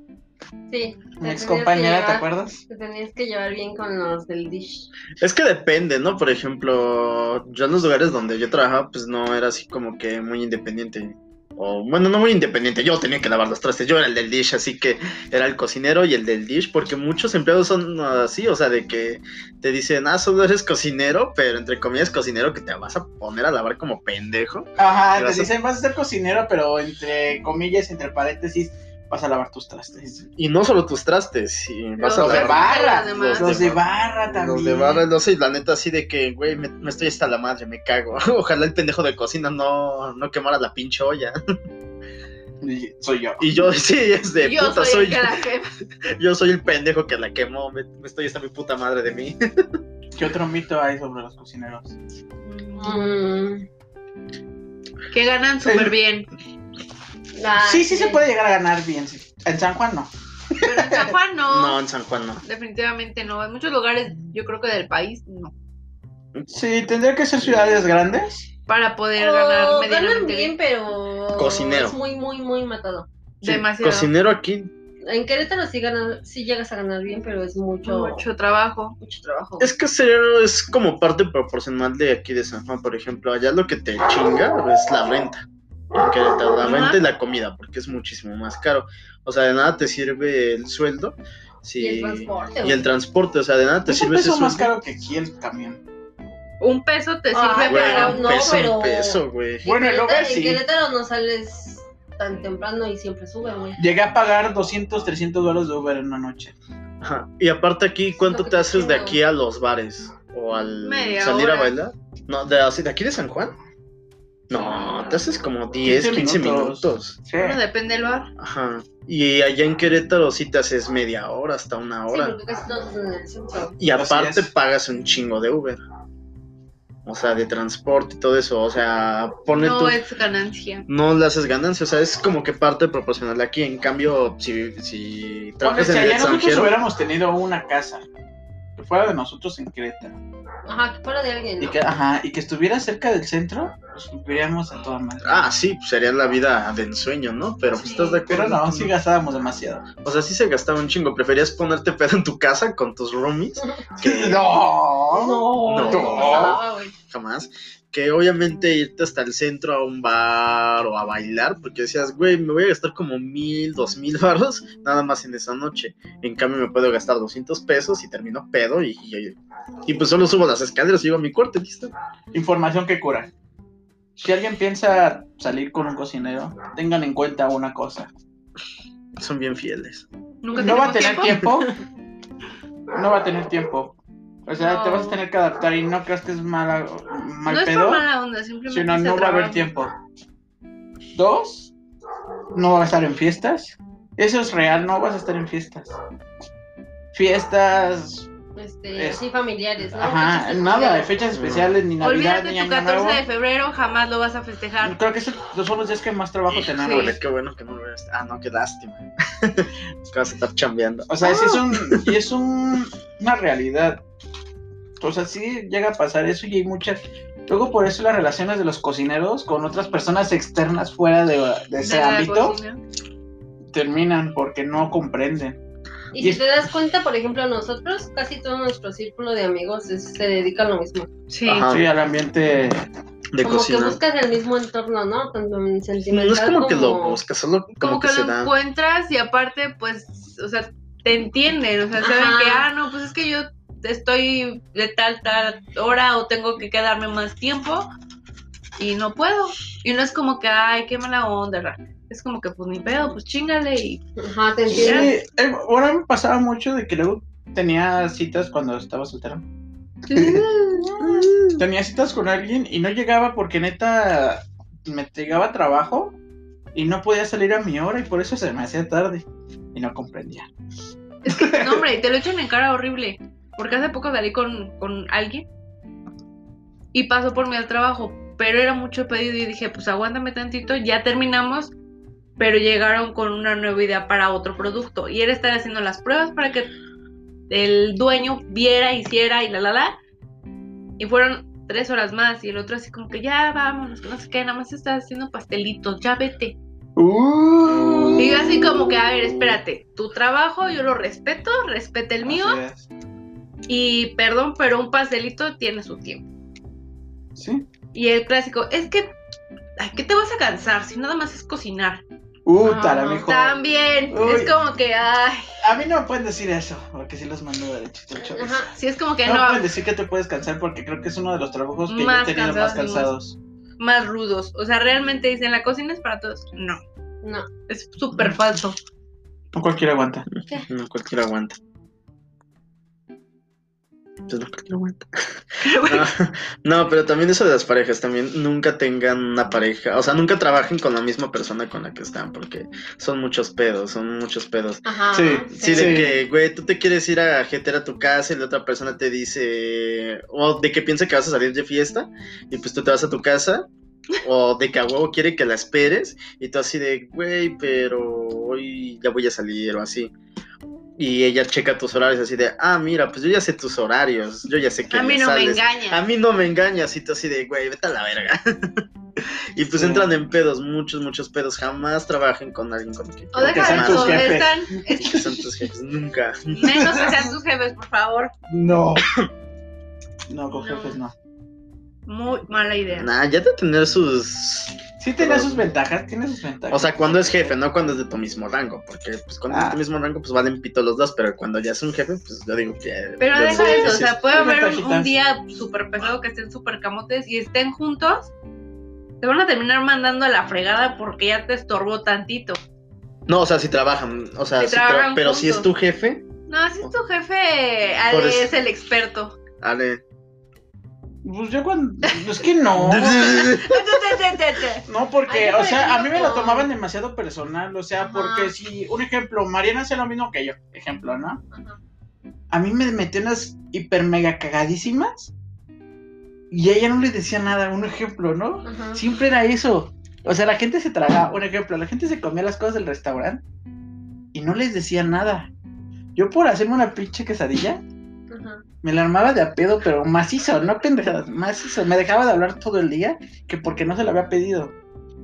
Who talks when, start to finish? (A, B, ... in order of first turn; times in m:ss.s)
0:00.7-0:04.9 A
0:01.2-0:02.6 B
0:05.2-0:25.5 C
0:24.8-0:30.3 B
0:30.4-0:41.4 C
0:32.0-0:33.6 D
0:32.1-0:35.0 B
0:42.6-0:43.4 B
0:43.4-0:45.4 C
0:44.4-0:45.7 D
0:46.0-0:49.8 C
0:50.2-0:52.0 B
0:52.4-0:53.0 D
0:52.8-0:53.7 A
0:55.1-0:56.3 D
0:55.6-0:55.9 B
0:57.4-0:58.2 A
0:57.6-1:01.1 B
1:00.6-1:01.8 D
1:01.5-1:02.4 C
1:02.4-1:05.5 D
1:06.5-1:08.5 B
1:08.7-1:10.6 D
1:09.2-1:13.1 A
1:11.3-1:12.0 C
1:13.4-1:14.1 D
1:13.4-1:14.7 C
1:15.0-1:18.3 A
1:17.8-1:19.0 D
1:19.0-1:19.8 A
1:19.6-1:34.7 C
1:26.6-1:27.0 D
1:31.8-1:32.8 A
1:33.9-1:35.8 B
1:36.6-1:38.6 D
1:37.3-1:43.8 A
1:37.6-1:39.6 C
1:39.6-1:40.6 B
1:43.8-1:46.6 B
1:47.0-1:53.6 C
1:48.2-1:49.2 A
1:50.8-1:51.7 D
1:54.5-1:57.2 C
1:55.8-1:57.6 B
1:57.4-1:58.3 D
1:58.4-2:02.4 C
2:02.1-2:03.8 A
2:03.8-2:05.8 C
2:04.0-2:04.5 B
2:07.0-2:10.0 C
2:09.6-2:10.9 D
2:10.9-2:16.8 C
2:15.6-2:18.0 B
2:18.8-2:20.2 B
2:20.7-2:21.8 A
2:21.6-2:25.4 B
2:25.2-2:28.9 C
2:27.6-2:28.2 D
2:28.3-2:29.9 B
2:30.0-2:34.5 C
2:34.0-2:36.6 B
2:35.1-2:36.9 A
2:35.6-2:51.9 C
2:52.3-2:53.3 B
2:54.2-2:58.1 B
2:59.2-3:00.1 C
3:00.4-3:01.5 D
3:00.5-3:01.0 A
3:00.6-3:01.7 B
3:02.9-3:08.0 B
3:04.6-3:05.2 D
3:07.5-3:09.7 D
3:08.7-3:09.9 B
3:11.2-3:11.7 B
3:12.5-3:15.9 B
3:17.1-3:18.3 B
3:18.6-3:21.1 A
3:19.0-3:19.2 B
3:19.9-3:23.2 B
3:21.3-3:21.7 C
3:22.0-3:25.0 D
3:24.8-3:27.2 B
3:26.6-3:32.1 C
3:26.8-3:27.2 D
3:31.1-3:34.0 B
3:31.2-3:31.6 A
3:35.0-3:42.6 B
3:41.8-3:42.8 D
3:43.7-3:45.6 B
3:46.1-3:51.1 A
3:51.3-3:51.7 D
3:51.5-3:51.9 C
3:51.7-3:52.8 B
3:53.3-3:54.0 C
3:53.4-3:57.2 A
3:56.1-3:58.5 C
3:57.8-4:07.9 D
4:02.0-4:02.7 A
4:08.8-4:14.0 D
4:14.2-4:15.1 A
4:14.7-4:15.1 D
4:14.7-4:19.4 B
4:20.1-4:20.4 B
4:20.1-4:21.1 D
4:21.0-4:26.2 B
4:26.7-4:30.5 B
4:31.2-4:35.5 D
4:31.3-4:31.8 B
4:36.9-4:41.7 D
4:42.4-4:46.7 D
4:47.5-4:50.0 D
4:51.0-4:56.6 D
4:57.0-4:59.6 B
4:57.7-4:58.4 C
4:58.2-5:02.6 D
5:02.2-5:02.9 B
5:03.7-5:06.2 D
5:07.4-5:07.7 B
5:07.9-5:09.1 D
5:09.8-5:12.0 D
5:12.5-5:13.6 B
5:12.6-5:15.6 D
5:14.1-5:14.5 B
5:15.6-5:18.7 B
5:18.2-5:18.7 A
5:18.7-5:19.7 D
5:19.2-5:23.4 B
5:21.9-5:23.1 D
5:23.8-5:26.8 D
5:27.7-5:28.8 D
5:29.5-5:30.3 B
5:30.7-5:31.6 C
5:34.3-5:44.8 C
5:35.6-5:36.1 D
5:44.8-5:46.1 A
5:45.1-5:46.1 B
5:45.5-5:53.7 C
5:54.2-6:00.1 C
6:01.0-6:14.4 C
6:04.9-6:06.0 D
6:09.7-6:10.1 B
6:13.3-6:15.5 D
6:13.4-6:15.0 B
6:14.9-6:17.0 C
6:16.5-6:18.3 D
6:18.5-6:19.1 B
6:20.3-6:21.1 B
6:20.5-6:21.0 D
6:22.1-6:23.1 D
6:22.9-6:25.7 C
6:25.0-6:27.5 B
6:26.7-6:34.2 C
6:29.5-6:29.8 B
6:33.2-6:38.3 D
6:33.8-6:35.1 B
6:39.2-6:42.6 D
6:43.3-6:46.3 C
6:44.6-6:45.7 D
6:46.5-6:49.4 D
6:48.1-6:48.5 C
6:49.6-6:50.0 C
6:51.2-6:53.4 B
6:52.7-6:53.8 C
6:53.1-6:54.8 D
6:54.9-7:01.4 B
6:55.3-6:56.7 A
6:58.1-6:58.5 A
7:01.5-7:01.8 A
7:02.5-7:05.3 B
7:06.5-7:13.4 B
7:08.6-7:09.0 A
7:14.3-7:15.5 B
7:16.2-7:17.8 B
7:18.3-7:18.6 A
7:18.8-7:24.7 B